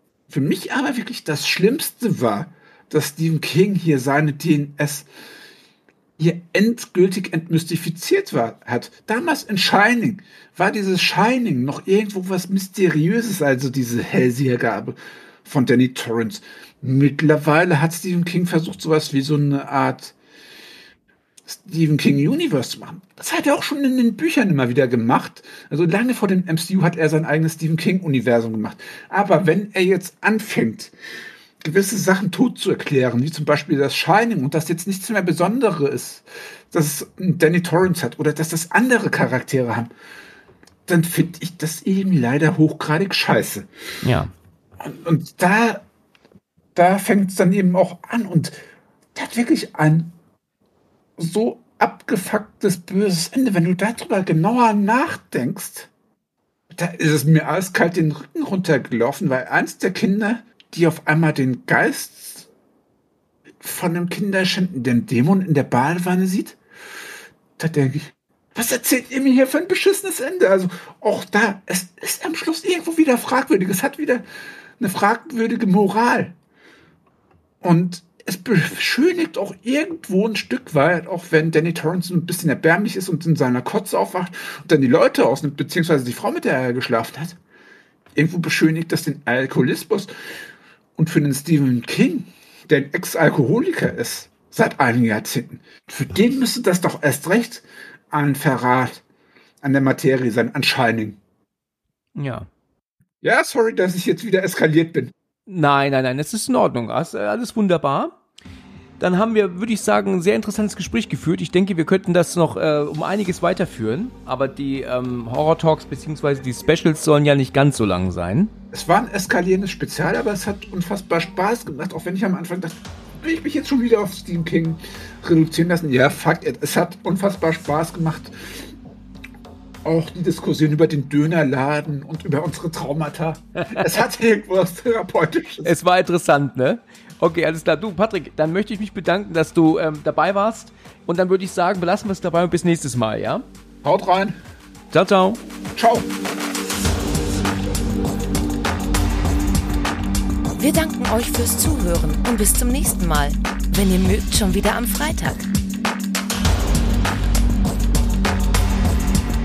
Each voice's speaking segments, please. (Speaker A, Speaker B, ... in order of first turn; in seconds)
Speaker A: 0.3-5.1, 6.2-20.1, 21.4-30.9, 31.6-39.9, 40.9-43.7, 44.8-45.8, 46.7-48.5, 49.1-50.1, 51.2-55.9, 56.7-62.5, 63.6-66.6, 67.6-74.2, 74.8-76.3, 77.6-87.4, 88.1-90.1, 91.0-99.0, 99.6-101.2, 103.2-105.1, 118.7-128.7, 129.8-135.7, 143.8-144.4, 145.7-146.1
Speaker B: 44.0-44.3, 102.2-102.5, 105.5-108.2, 109.0-118.5, 135.6-143.4, 144.9-145.4
Speaker C: 150.6-155.5